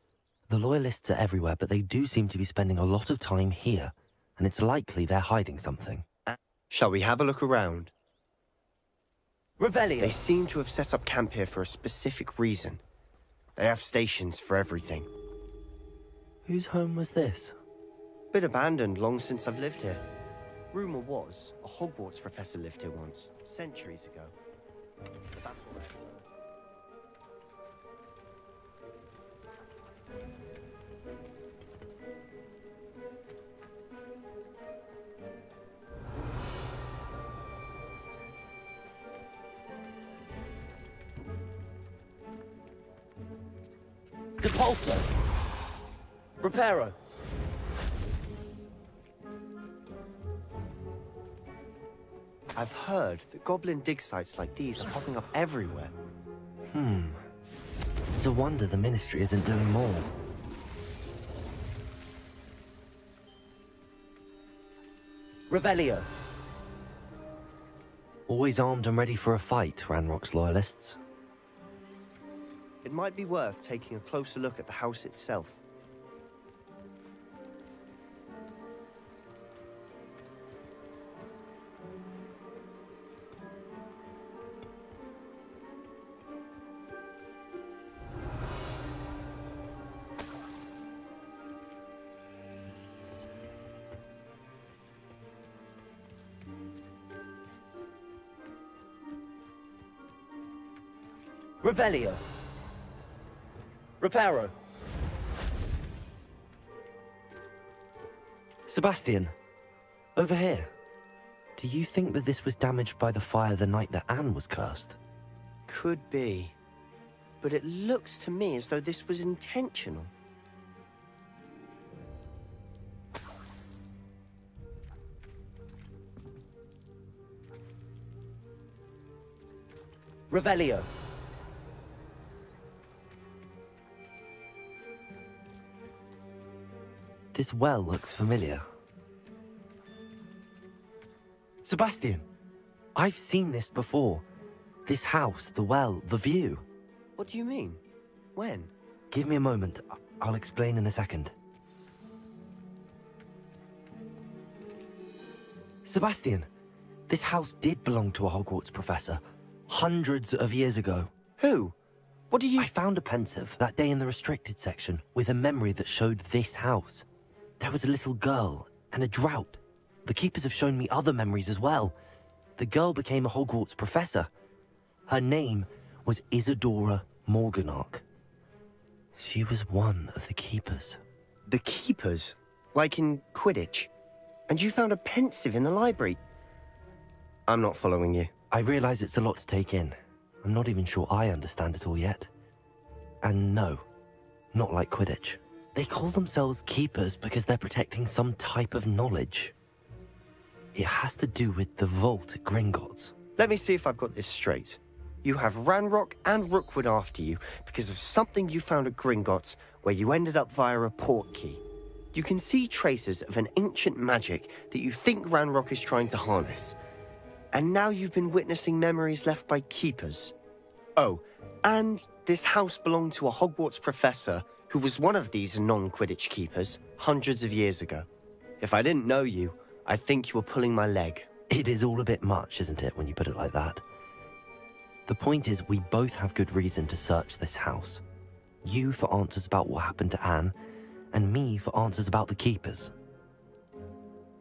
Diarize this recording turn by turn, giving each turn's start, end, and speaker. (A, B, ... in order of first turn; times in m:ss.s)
0:00.5-0:06.0 A
0:06.3-0:07.9 B
0:09.6-0:10.2 A
0:10.0-0:12.8 B
0:13.6-0:15.1 B
0:16.4-0:17.6 A
0:18.3-0:20.0 B
0:20.7-0:24.3 B
0:25.3-0:26.2 B
0:44.4-0:45.0 A
0:46.4-0:46.9 A
0:52.6-0:55.9 B
0:56.7-0:57.2 A
0:58.2-1:00.1 A
1:05.5-1:06.0 A
1:08.3-1:11.0 A
1:12.8-1:15.6 B
1:41.6-1:42.2 A
1:44.0-1:44.5 A
1:48.7-1:49.3 A
1:50.2-1:50.7 A
1:51.6-1:55.0 A
1:55.7-1:56.5 B
1:57.4-2:00.1 B
2:10.3-2:10.8 A
2:17.3-2:18.6 A
2:21.6-2:22.2 A
2:23.0-2:24.2 A
2:24.8-2:26.6 A
2:27.2-2:27.8 B
2:28.4-2:28.7 B
2:29.1-2:31.3 A
2:35.8-2:36.5 A
2:37.1-2:41.1 A
2:41.4-2:41.7 B
2:42.3-2:42.7 B
2:42.6-2:47.0 A
2:47.6-2:51.9 A
2:52.6-2:54.3 A
2:55.1-2:58.0 A
2:59.2-3:01.0 A
3:01.5-3:03.9 B
3:04.5-3:06.2 B
3:07.5-3:08.3 B
3:08.5-3:12.3 A
3:13.2-3:13.8 A
3:14.5-3:19.5 A
3:20.7-3:23.1 A
3:23.4-3:36.8 B
3:37.5-3:40.3 B
3:41.0-3:48.1 B
3:48.6-3:51.3 B
3:51.5-3:53.8 A
3:55.1-3:58.0 A
3:58.6-4:00.5 A
4:01.1-4:02.9 A